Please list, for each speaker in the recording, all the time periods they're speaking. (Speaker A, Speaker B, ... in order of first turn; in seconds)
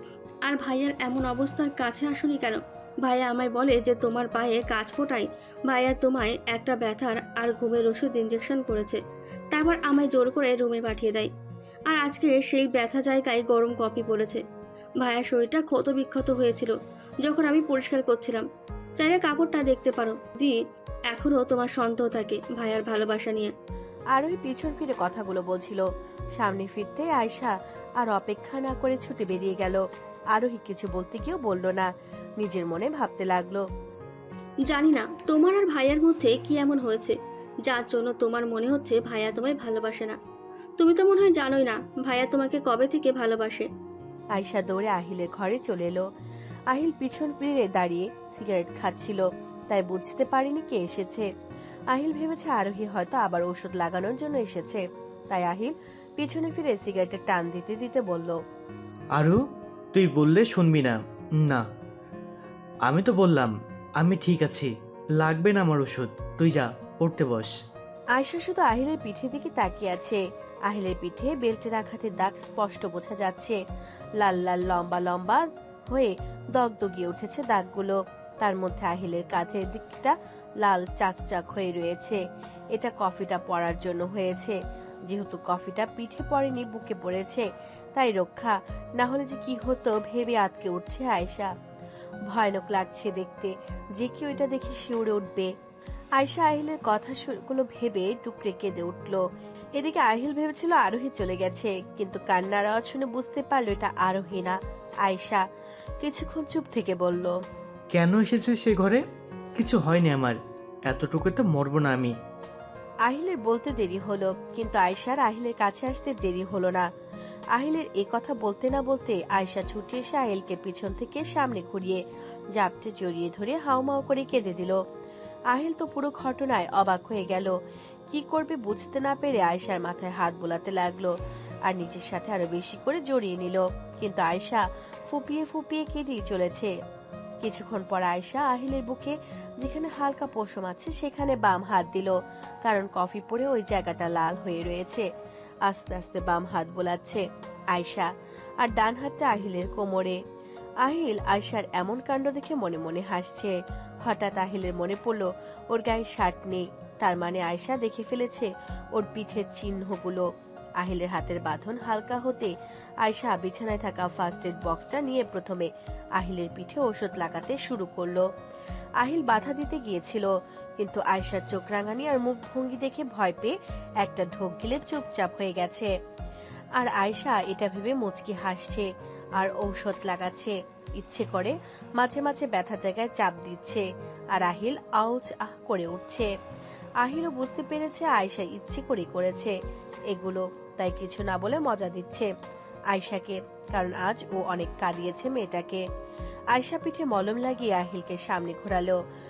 Speaker A: 0.5-9.0, 9.5-11.3, 11.9-14.4, 15.0-18.4, 19.0-20.6, 21.1-23.5, 34.7-40.2, 40.8-43.7
Speaker B: 24.1-33.6, 44.3-46.0, 46.7-51.3, 51.9-58.4, 68.2-73.6, 74.2-82.2, 82.7-84.6, 85.1-91.5, 92.3-95.5, 96.2-99.2, 99.8-105.4, 106.0-107.4, 113.1-116.9, 117.6-122.0, 122.5-124.8, 125.5-127.5, 128.1-131.1, 131.7-136.7, 137.4-145.1, 145.7-148.1, 148.6-150.2, 150.8-160.3, 160.8-168.3, 169.0-175.9, 176.8-186.3, 187.0-189.5, 190.1-192.3, 192.9-195.8, 196.5-199.0
Speaker C: 59.9-61.6, 62.9-67.5, 107.9-109.0, 109.6-112.2